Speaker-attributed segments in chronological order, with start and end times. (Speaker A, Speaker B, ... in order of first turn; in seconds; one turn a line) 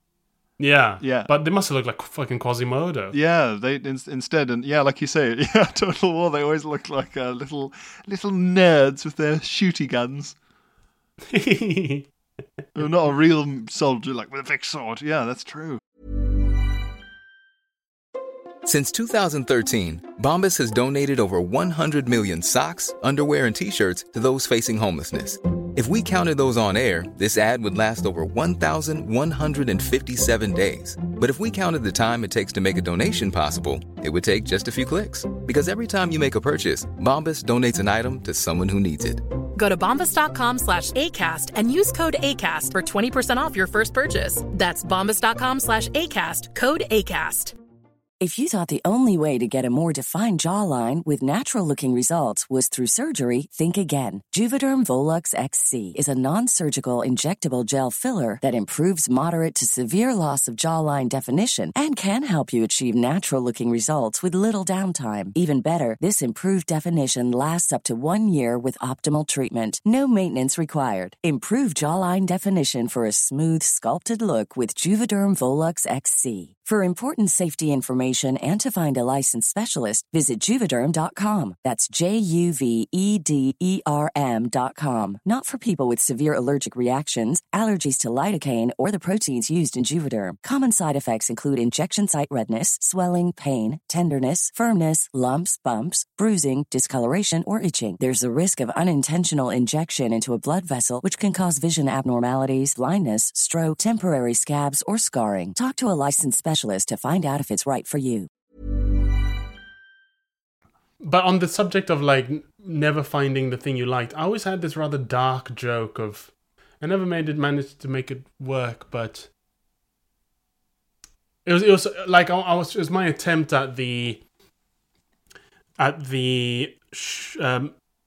Speaker A: 0.6-3.2
Speaker B: 1.0-1.3
Speaker B: 3.1-10.3
Speaker A: 11.3-12.1
Speaker B: 12.8-15.8
Speaker C: 18.6-39.2
Speaker D: 39.6-47.5
Speaker E: 48.2-108.3
Speaker A: 111.0-119.3
Speaker A: 121.5-124.2
Speaker A: 125.8-127.7